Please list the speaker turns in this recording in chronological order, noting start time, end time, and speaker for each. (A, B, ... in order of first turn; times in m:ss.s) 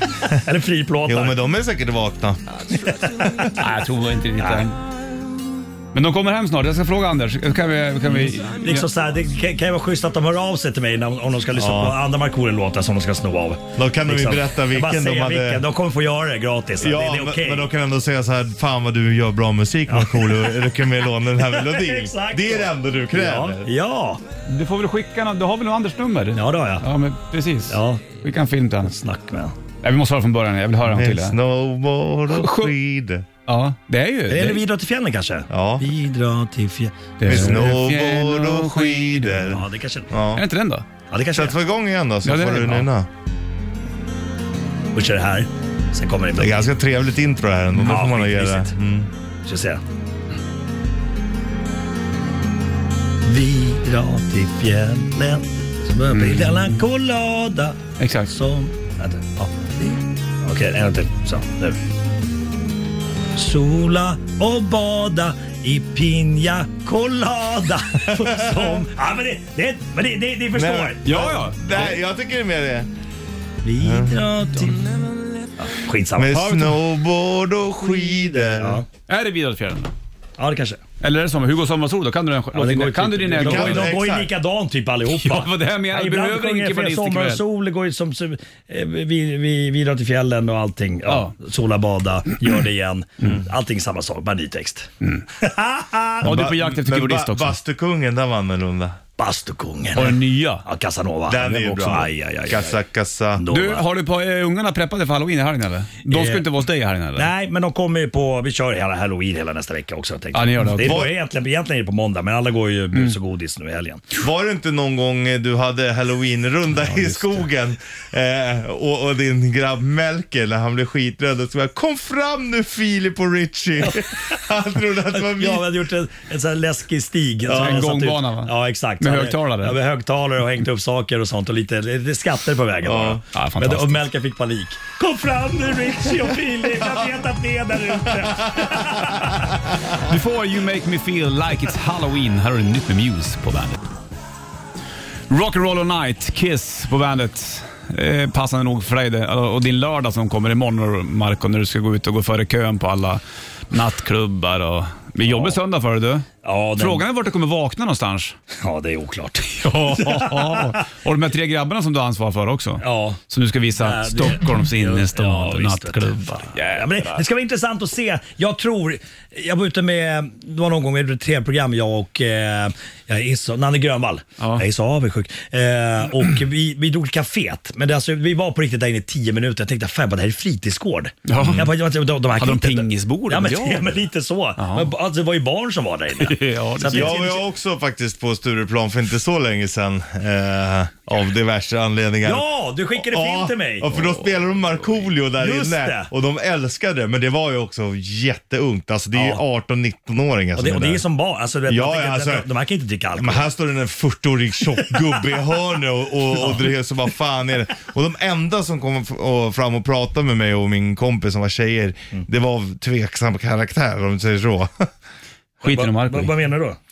0:00.2-0:01.4 A
0:01.1-0:03.5 B
0:02.6-0:03.5 A
0:03.6-0:04.8 C
0:04.4-0:04.7 A
0:05.9-0:08.9 C
0:08.1-0:17.7 A
0:11.5-0:12.0 B
0:13.8-0:15.6 B
0:16.8-0:23.7 B
0:19.9-0:24.2 A
0:24.5-0:29.0 C
0:26.3-0:26.9 A
0:27.7-0:28.2 A
0:28.8-0:29.6 A
0:29.8-0:31.4 C
0:30.9-0:33.3 B
0:32.3-0:32.7 C
0:33.5-0:34.6 C
0:34.3-0:37.4 A
0:35.5-0:35.8 B
0:37.2-0:39.6 C
0:37.2-0:40.5 B
0:39.5-0:40.1 A
0:40.4-0:40.9 C
0:41.1-0:41.6 A
0:41.3-0:43.1 B
0:42.2-0:42.9 C
0:44.9-0:46.7 A
0:46.4-0:49.1 B
0:47.8-0:48.7 A
0:49.4-0:49.8 A
0:53.2-1:01.8 A
0:56.1-0:56.8 C
0:58.0-0:58.3 C
1:03.4-1:11.4 A
1:08.1-1:08.7 B
1:10.5-1:12.9 B
1:11.0-1:12.0 C
1:13.6-1:16.6 A
1:13.8-1:14.2 B
1:16.2-1:18.8 B
1:16.4-1:16.7 C
1:17.9-1:18.9 A
1:19.1-1:19.9 C
1:20.4-1:20.8 A
1:21.0-1:24.0 C
1:22.5-1:36.3 A
1:23.4-1:24.3 B
1:25.2-1:27.4 C
1:31.1-1:31.3 C
1:36.2-1:37.6 C
1:36.2-1:39.0 B
1:39.2-1:42.8 A
1:39.9-1:40.6 C
1:41.3-1:43.4 B
1:43.4-1:43.9 A
1:43.5-1:47.3 C
1:46.1-1:46.5 A
1:47.2-1:54.1 A
1:50.3-1:51.0 C
1:50.8-1:51.2 B
1:54.2-2:05.7 B
1:56.8-1:57.4 C
2:03.8-2:04.2 A
2:05.1-2:19.5 A
2:07.5-2:09.8 C
2:12.8-2:13.2 B
2:13.3-2:14.0 C
2:19.2-2:19.9 B
2:20.0-2:23.8 C
2:25.3-2:38.4 C
2:35.3-2:35.5 A
2:36.4-2:37.1 A
2:38.6-2:40.8 A
2:39.5-2:47.2 C
2:42.8-2:43.2 A
2:43.8-3:07.4 A
2:54.4-2:54.6 C
3:01.3-3:01.7 C
3:02.3-3:04.9 C
3:06.2-3:07.2 C
3:06.9-3:21.0 B
3:12.2-3:14.0 A
3:15.3-3:16.1 A
3:19.1-3:19.4 A
3:20.6-3:23.4 A
3:21.7-3:22.5 B
3:23.2-3:34.9 B
3:26.4-3:26.6 A
3:35.6-3:36.3 C
3:35.6-3:36.8 A